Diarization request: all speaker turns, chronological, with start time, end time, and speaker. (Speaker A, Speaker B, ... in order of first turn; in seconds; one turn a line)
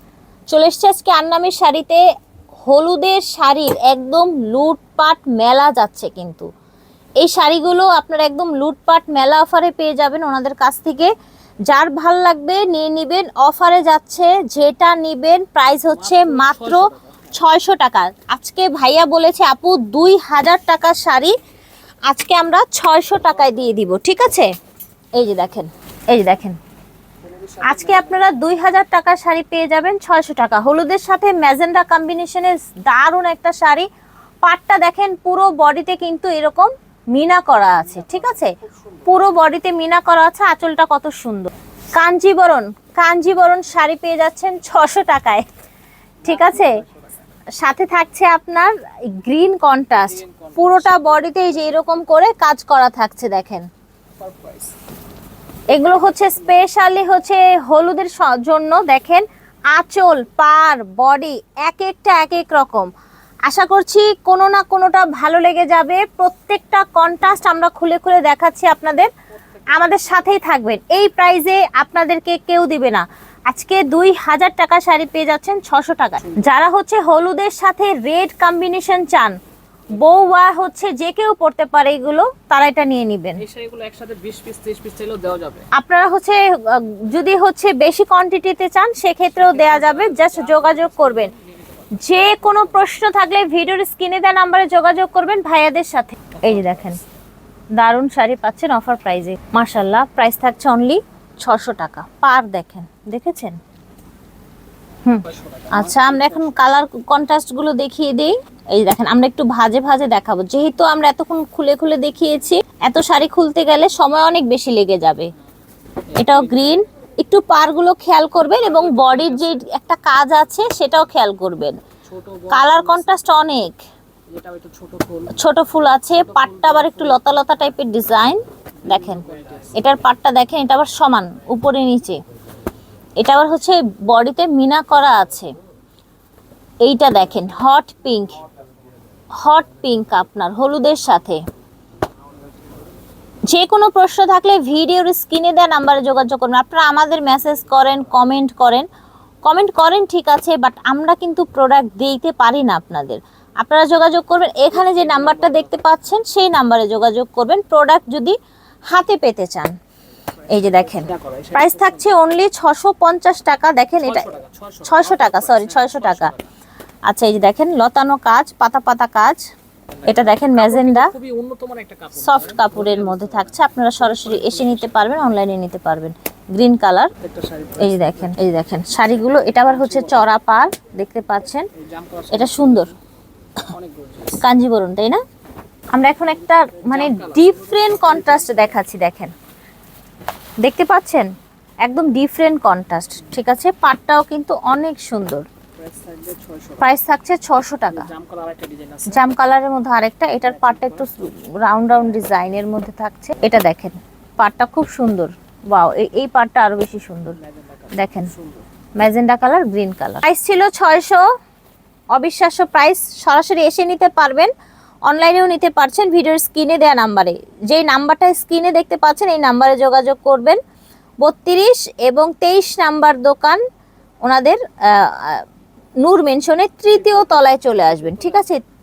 Speaker A: 0.5-2.0
Speaker A: 2.7-6.5
Speaker A: 7.2-11.1
Speaker A: 11.7-21.4
Speaker B: 15.7-17.3
Speaker A: 22.1-24.5
Speaker B: 23.3-23.7
Speaker A: 25.1-26.6
Speaker B: 27.2-28.3
Speaker A: 27.6-33.9
Speaker A: 34.4-45.5
Speaker B: 37.7-39.2
Speaker B: 46.2-47.2
Speaker A: 46.2-46.8
Speaker A: 47.6-53.7
Speaker B: 50.0-51.5
Speaker B: 54.2-54.8
Speaker A: 55.7-62.9
Speaker B: 56.1-56.6
Speaker A: 63.5-69.1
Speaker B: 69.3-70.4
Speaker A: 69.7-79.4
Speaker B: 76.2-76.5
Speaker A: 79.9-83.4
Speaker B: 83.4-85.7
Speaker A: 85.7-91.3
Speaker B: 89.4-92.9
Speaker A: 91.9-97.0
Speaker B: 96.4-96.8
Speaker A: 97.8-103.6
Speaker A: 105.0-115.3
Speaker B: 105.2-106.8
Speaker B: 116.1-116.8
Speaker A: 116.2-121.8
Speaker B: 118.6-119.6
Speaker B: 122.0-123.2
Speaker A: 122.5-123.8
Speaker B: 124.3-125.4
Speaker A: 125.3-132.2
Speaker B: 126.1-127.3
Speaker B: 128.8-130.1
Speaker A: 133.2-135.5
Speaker A: 136.8-138.4
Speaker A: 139.3-141.4
Speaker A: 143.5-148.9
Speaker A: 149.4-158.4
Speaker B: 154.7-156.0
Speaker A: 158.9-159.7
Speaker B: 160.5-162.1
Speaker A: 160.5-164.3
Speaker B: 164.0-166.5
Speaker A: 164.8-166.3
Speaker A: 167.1-169.4
Speaker B: 170.0-175.2
Speaker A: 170.1-171.1
Speaker A: 172.2-177.1
Speaker B: 177.2-178.4
Speaker A: 177.8-181.7
Speaker B: 179.4-180.3
Speaker B: 181.8-183.0
Speaker A: 182.3-182.9
Speaker B: 183.7-184.4
Speaker A: 184.4-185.2
Speaker A: 185.9-189.3
Speaker B: 186.3-188.8
Speaker A: 190.6-191.3
Speaker A: 191.8-195.5
Speaker B: 195.8-196.9
Speaker A: 196.8-198.1
Speaker B: 197.8-199.3
Speaker A: 199.1-207.4
Speaker B: 200.4-201.2
Speaker B: 207.4-208.7
Speaker A: 207.9-208.3
Speaker A: 209.0-211.2
Speaker A: 212.1-214.5
Speaker A: 215.1-220.6
Speaker A: 221.2-223.6
Speaker A: 224.2-225.4
Speaker A: 226.0-228.6
Speaker B: 227.0-228.4